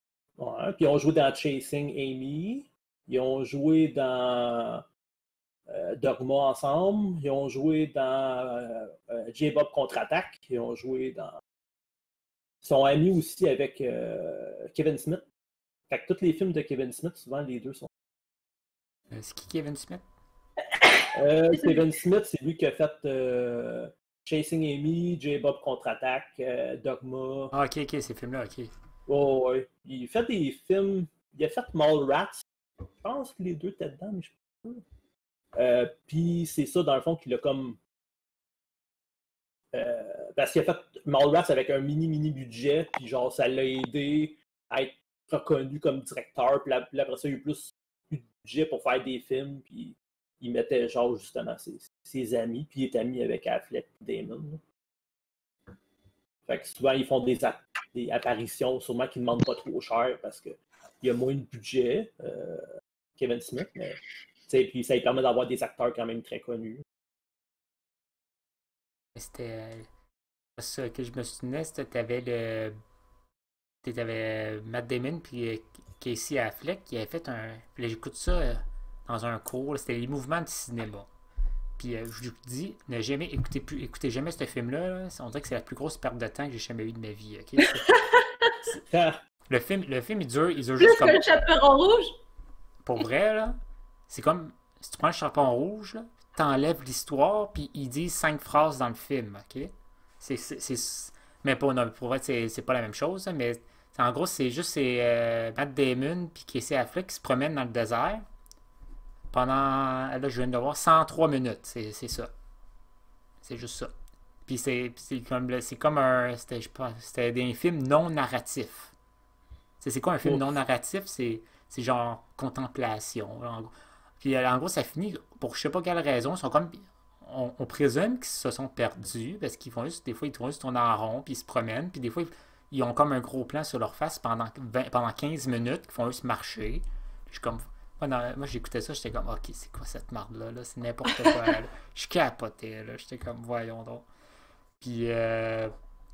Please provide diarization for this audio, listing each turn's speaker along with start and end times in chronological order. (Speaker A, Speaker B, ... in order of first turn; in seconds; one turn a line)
Speaker A: 0.4-4.9
Speaker A: 5.7-11.4
Speaker A: 12.6-15.2
Speaker A: 15.9-17.9
Speaker B: 19.1-20.0
Speaker C: 20.8-21.1
Speaker A: 21.1-27.5
Speaker B: 27.5-28.7
Speaker A: 29.1-32.4
Speaker A: 33.0-34.8
Speaker A: 35.6-37.8
Speaker A: 39.7-54.6
Speaker A: 56.5-66.8
Speaker B: 69.2-69.9
Speaker B: 70.6-72.8
Speaker B: 73.8-81.1
Speaker B: 81.8-87.9
Speaker C: 87.9-88.6
Speaker A: 88.8-89.2
Speaker B: 89.5-91.2
Speaker C: 90.8-92.2
Speaker B: 92.8-93.6
Speaker B: 94.1-108.2
Speaker B: 109.3-112.3
Speaker B: 113.4-113.9
Speaker B: 114.5-118.9
Speaker B: 119.8-144.1
Speaker B: 144.8-145.7